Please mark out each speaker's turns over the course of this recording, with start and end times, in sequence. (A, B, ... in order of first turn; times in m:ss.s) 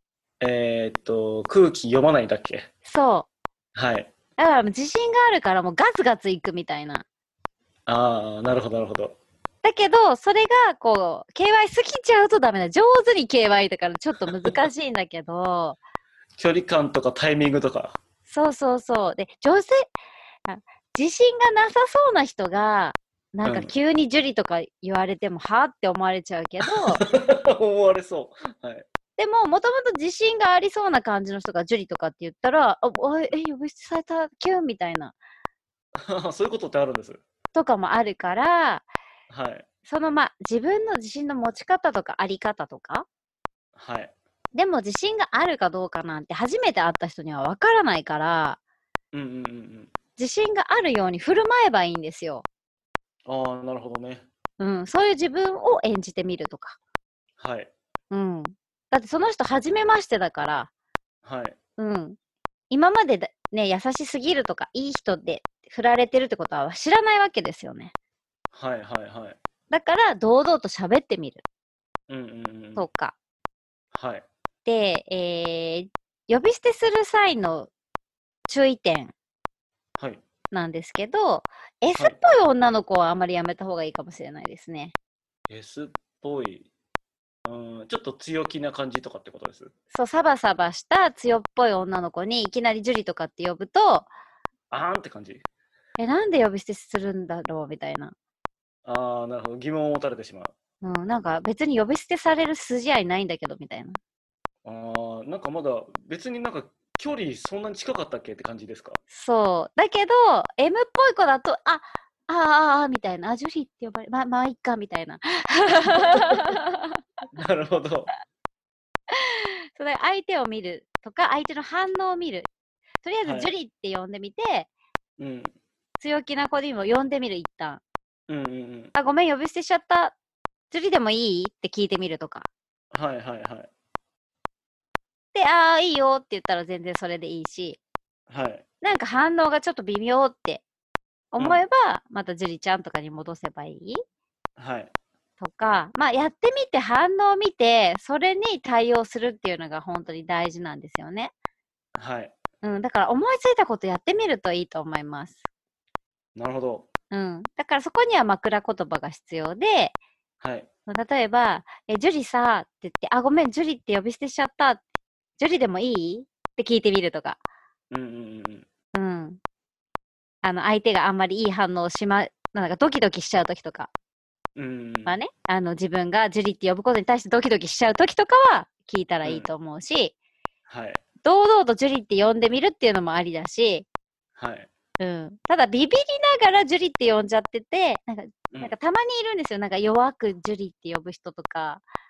0:00.4-0:02.7 A
0:02.8-0:03.3 B
0:03.7-0:04.1 A
0:04.4-0:07.0 B
0:07.9-0:09.2 A
0:09.6-0:15.8 B
0:16.4-0:18.0 A
0:18.3-0:19.8 B
0:20.5-0:27.0 B
0:23.4-0:23.7 A
0:26.8-0:28.8 A
0:29.2-0:35.1 B
0:36.0-0:37.2 A
0:37.5-0:38.8 B
0:39.3-0:39.6 A
0:39.8-0:43.0 B
0:43.8-0:44.1 A
0:44.5-0:48.6 B
0:49.1-0:49.9 A
0:50.2-0:52.4 B
0:53.2-0:54.2 A
0:54.6-0:56.8 B
0:57.4-0:57.7 A
0:58.1-1:00.7 B
1:01.2-1:01.6 A
1:01.8-1:02.2 B
1:02.7-1:07.9 B
1:08.5-1:09.4 A
1:09.7-1:11.4 B
1:12.1-1:12.9 A
1:12.8-1:13.1 B
1:13.9-1:14.2 A
1:14.6-1:17.7 B
1:18.5-1:19.1 B
1:20.0-1:20.2 A
1:20.5-1:24.9 B
1:21.9-1:22.2 A
1:25.5-1:26.7 A
1:27.4-1:29.7 A
1:29.9-1:34.1 B
1:34.7-1:35.4 A
1:36.0-1:38.1 B
1:38.8-1:40.5 A
1:40.8-1:44.0 B
1:44.6-1:49.0 A
1:49.1-1:57.0 B
1:57.3-1:58.1 A
1:59.1-2:02.5 B
2:03.0-2:04.7 B
2:03.2-2:03.5 A
2:05.2-2:05.5 A
2:06.0-2:07.8 B
2:08.3-2:08.9 A
2:08.9-2:10.1 B
2:10.7-2:12.5 B
2:12.9-2:13.7 A
2:15.3-2:17.8 B
2:18.3-2:18.6 A
2:18.8-2:20.6 B
2:21.3-2:24.0 B
2:24.6-2:24.9 A
2:25.4-2:31.3 B
2:32.0-2:32.3 A
2:32.6-2:35.4 B
2:36.3-2:36.9 A
2:37.1-2:40.0 B
2:40.4-2:40.7 A
2:40.9-2:44.8 B
2:45.4-2:47.4 B
2:47.9-2:48.7 A
2:48.9-2:49.4 B
2:50.4-2:53.9 B
2:54.6-2:55.2 A
2:55.0-3:00.1 B
3:00.7-3:01.0 A
3:01.2-3:03.8 B
3:04.4-3:04.7 A
3:05.0-3:11.8 B